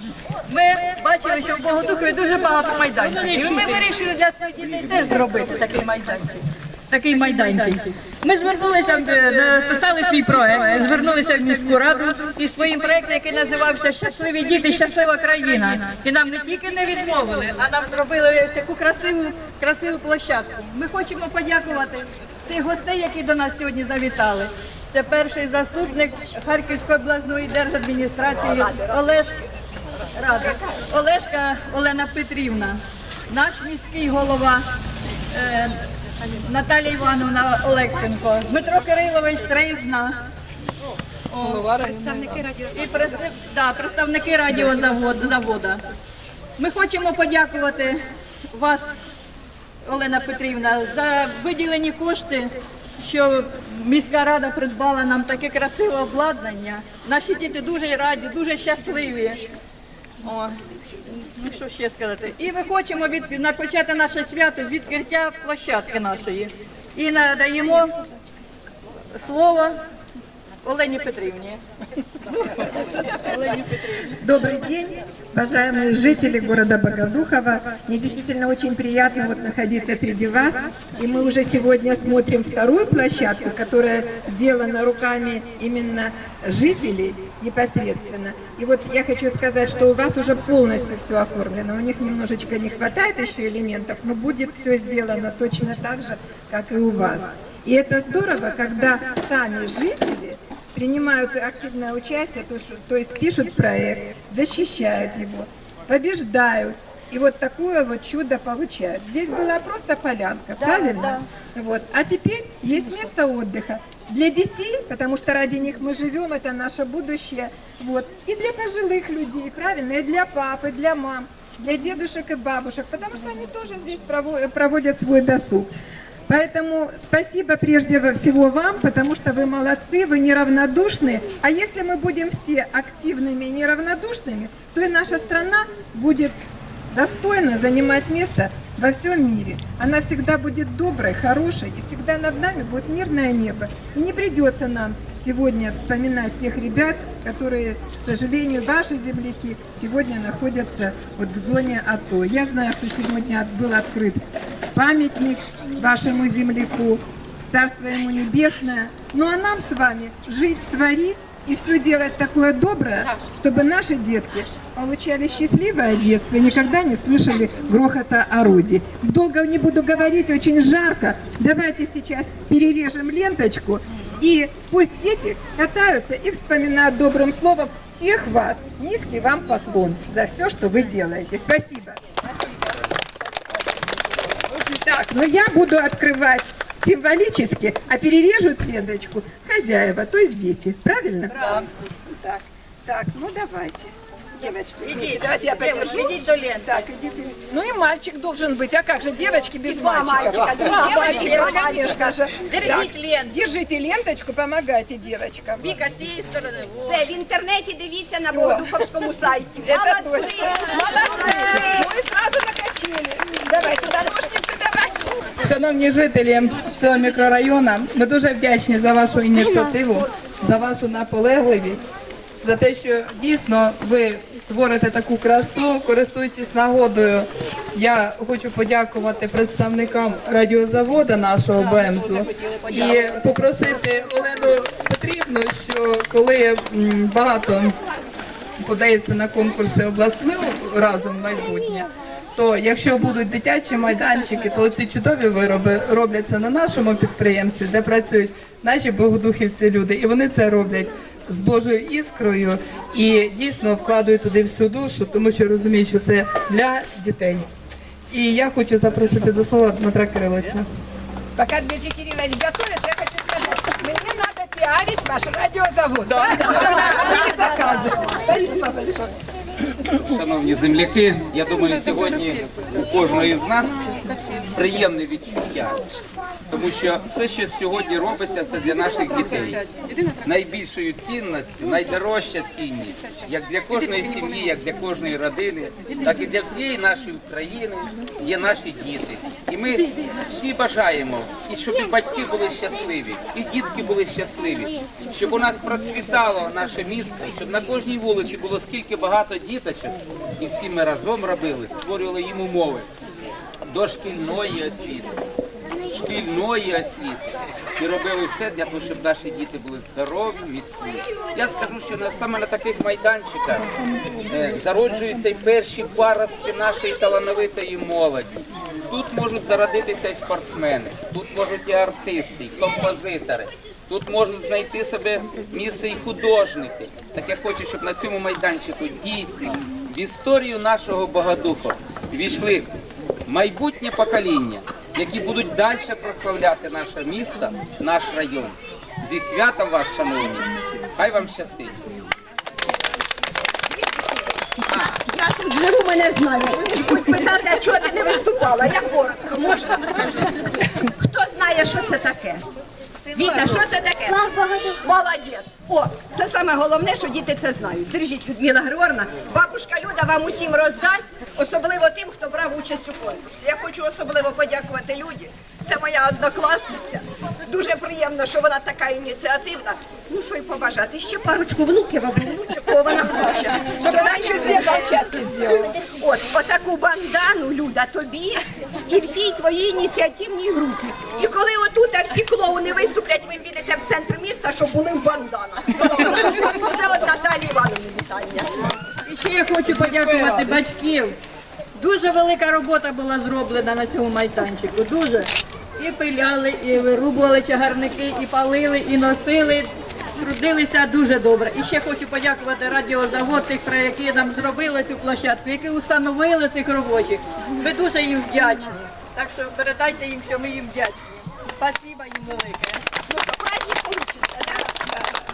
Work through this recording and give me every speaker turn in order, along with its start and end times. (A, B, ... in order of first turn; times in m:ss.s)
0:00.5-0:29.4 A
0:30.2-0:34.7 A
0:35.3-0:35.8 A
0:36.4-0:40.2 A
0:41.3-0:41.6 A
0:41.4-0:42.4 B
0:42.4-0:42.7 C
0:42.6-0:45.8 A
0:46.6-0:48.9 A
0:49.8-0:59.5 A
1:00.2-1:07.9 A
1:09.2-1:09.8 A
1:10.6-1:11.6 A
1:12.5-1:13.7 A
1:14.2-2:05.7 D
1:50.6-1:51.2 A
2:06.3-2:16.4 D
2:16.9-2:34.2 D
2:34.7-3:02.0 D
3:04.7-3:25.7 D
3:11.3-3:11.6 A
3:14.8-3:16.7 A
3:19.6-3:21.9 C
3:20.8-3:21.8 A
3:22.3-3:23.4 A
3:25.6-3:27.1 A
3:26.8-3:30.6 C
3:28.2-3:28.9 D
3:29.6-3:35.0 D
3:35.4-3:41.8 B
3:42.4-3:57.8 B
3:58.6-4:17.5 B
4:18.1-4:20.7 B
4:21.4-4:29.1 D
4:29.9-4:34.0 E
4:34.5-4:35.9 E
4:36.5-4:39.7 E
4:40.2-5:02.9 E
5:03.6-5:05.2 E
5:05.9-5:13.7 E
5:14.3-5:32.7 E
5:33.3-5:41.8 E
5:43.7-5:50.3 C
5:44.7-5:45.0 E
5:51.0-5:52.4 C
5:53.1-6:14.9 C
6:13.6-6:15.8 D
6:15.6-6:28.6 C
6:29.0-6:31.2 A
6:31.8-6:51.0 A
6:51.6-6:52.8 A
6:53.1-6:55.1 C